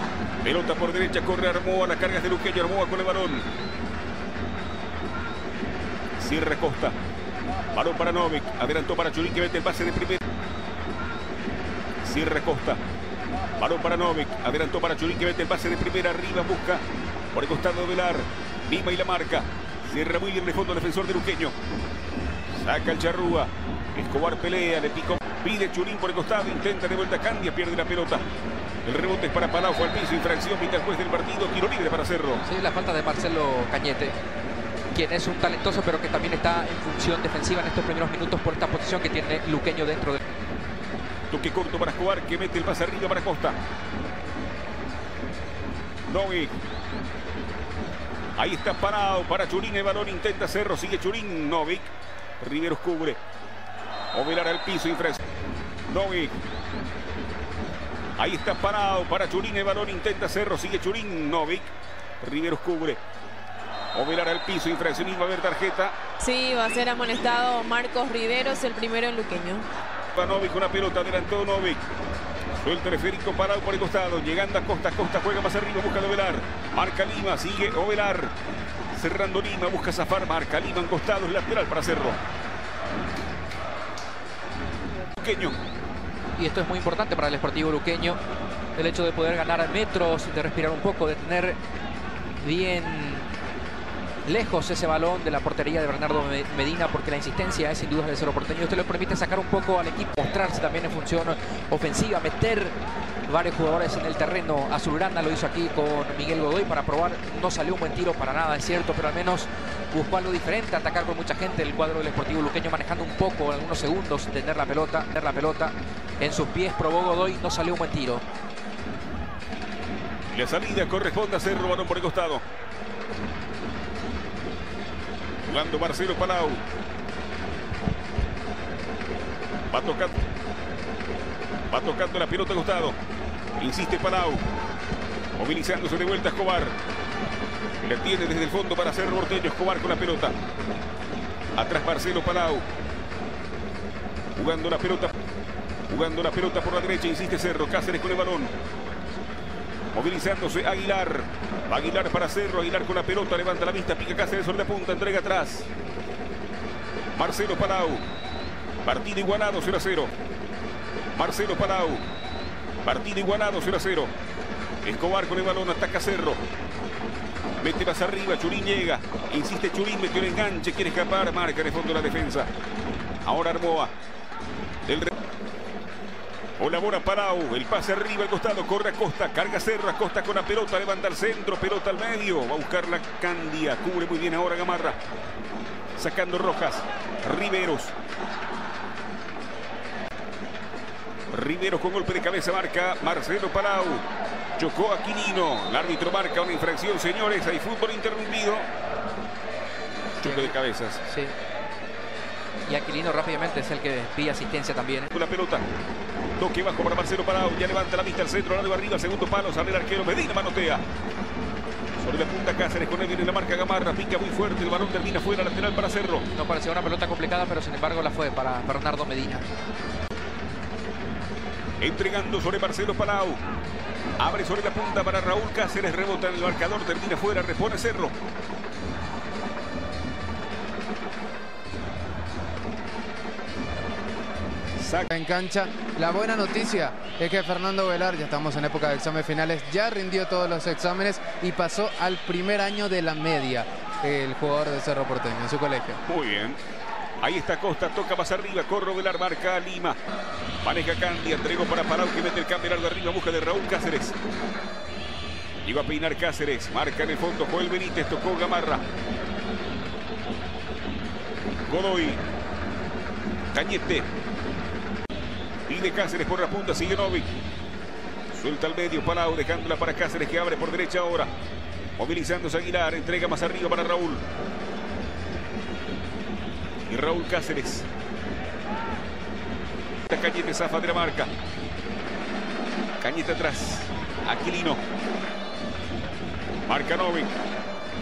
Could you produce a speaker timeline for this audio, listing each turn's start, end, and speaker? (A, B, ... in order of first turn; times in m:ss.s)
0:00.4-0:03.5 A
0:06.2-0:07.0 A
0:07.7-0:10.2 A
0:12.0-0:12.8 A
0:13.6-0:21.5 A
0:22.6-0:28.3 A
0:28.8-0:32.4 A
0:32.4-0:34.2 B
0:34.9-0:40.2 B
0:41.3-0:43.6 A
0:46.1-0:46.6 A
0:48.4-0:53.2 A
0:54.1-0:55.2 A
0:55.9-0:56.4 A
0:58.2-1:03.0 A
1:03.9-1:06.0 A
1:06.2-1:09.7 C
1:10.1-1:11.8 A
1:12.6-1:18.3 A
1:18.9-1:22.2 A
1:25.2-1:25.6 A
1:26.4-1:28.2 B
1:28.8-1:31.6 B
1:32.4-1:33.3 B
1:34.2-1:42.8 B
1:43.3-1:58.2 B
2:00.3-2:02.4 A
2:05.4-2:06.6 A
2:09.7-2:10.2 A
2:11.7-2:13.0 A
2:13.6-2:14.5 A
2:15.4-2:16.8 A
2:17.8-2:20.3 A
2:21.6-2:22.7 A
2:24.3-2:25.1 A
2:25.9-2:28.5 A
2:29.9-2:35.7 A
2:37.2-2:38.0 A
2:38.8-2:40.1 A
2:41.2-2:42.0 A
2:42.8-2:44.1 A
2:44.8-2:46.4 A
2:47.6-2:52.5 A
2:53.2-2:53.9 A
2:54.8-2:55.1 A
2:56.6-3:05.0 A
3:06.0-3:07.9 A
3:11.3-3:14.0 A
3:14.6-3:18.7 A
3:20.2-3:21.4 B
3:20.2-3:21.0 A
3:22.6-3:25.1 B
3:25.1-3:25.7 A
3:26.4-3:30.8 A
3:32.0-3:36.2 A
3:36.3-3:39.5 B
3:41.8-3:43.4 A
3:44.2-3:48.2 A
3:54.8-3:55.1 A
3:55.1-4:06.0 D
4:06.0-4:06.6 A
4:07.2-4:10.0 A
4:10.6-4:14.2 A
4:15.6-4:18.8 A
4:21.7-4:22.2 A
4:23.5-4:24.1 A
4:25.7-4:27.3 A
4:28.3-4:31.3 A
4:32.0-4:34.2 A
4:36.9-4:37.9 A
4:40.1-4:41.3 A
4:43.0-4:44.8 A
4:46.7-4:47.3 A